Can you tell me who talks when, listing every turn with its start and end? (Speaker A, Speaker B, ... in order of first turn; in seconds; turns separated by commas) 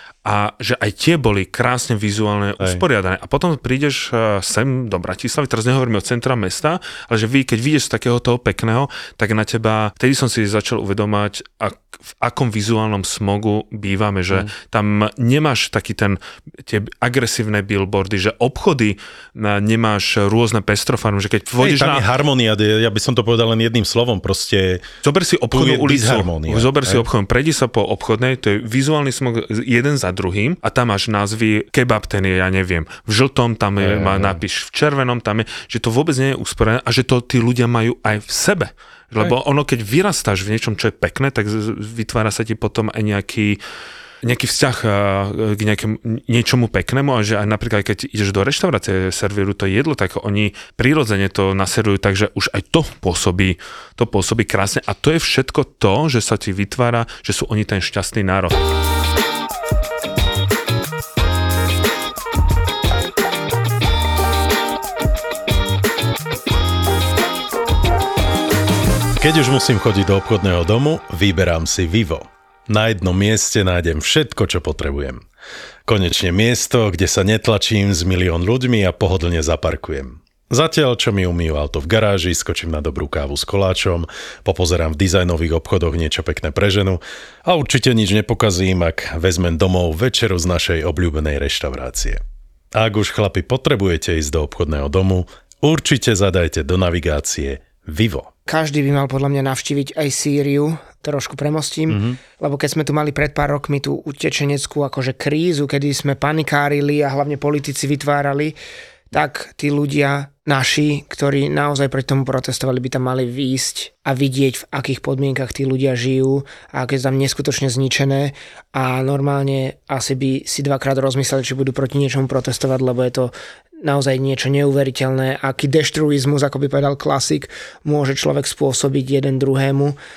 Speaker A: 0.2-22.1, Speaker B: 21.6-24.9, Speaker A: 25.0-43.6, Speaker B: 25.5-27.1, Speaker B: 33.8-34.4, Speaker A: 44.2-58.6, Speaker B: 69.2-75.2, Speaker B: 75.8-92.2, Speaker B: 92.7-98.3, Speaker C: 98.5-108.5, Speaker B: 101.9-102.2, Speaker C: 109.1-130.0